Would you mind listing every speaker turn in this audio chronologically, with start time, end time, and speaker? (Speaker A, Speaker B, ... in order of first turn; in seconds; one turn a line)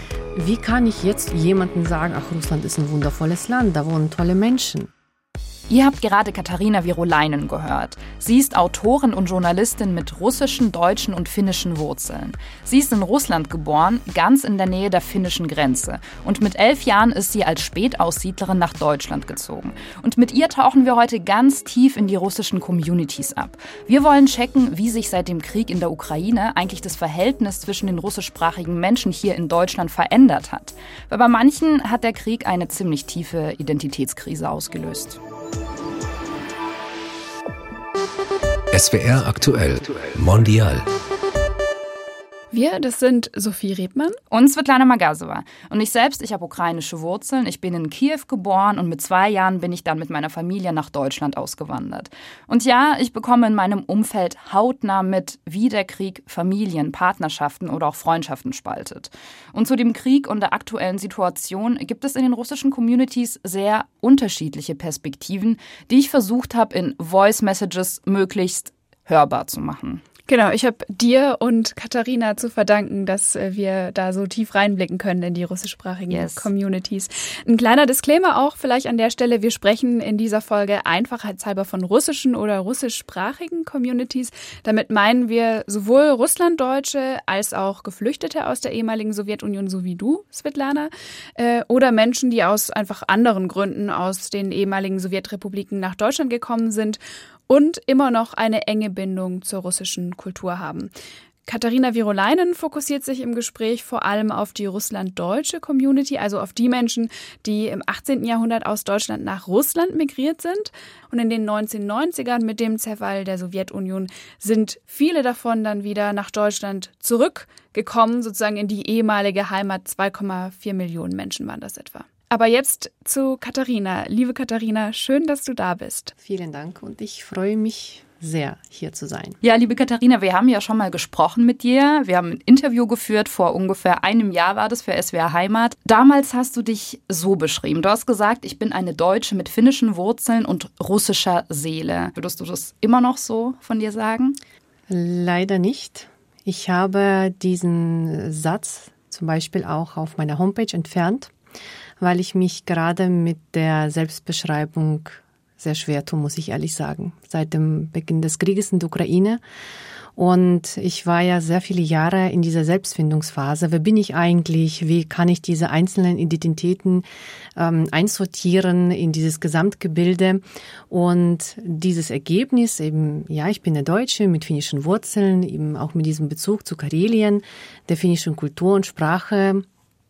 Speaker A: 0.3-4.9
Speaker B: 5.7-35.2
Speaker C: 38.7-40.8
Speaker D: 42.5-44.2
Speaker B: 44.3-70.0
Speaker D: 70.3-100.9
Speaker B: 76.1-76.5
Speaker D: 101.5-126.1
Speaker A: 126.2-129.4
Speaker B: 129.4-144.3
Speaker A: 144.9-151.3
Speaker A: 152.0-159.4
Speaker A: 160.2-167.0
Speaker A: 167.6-179.7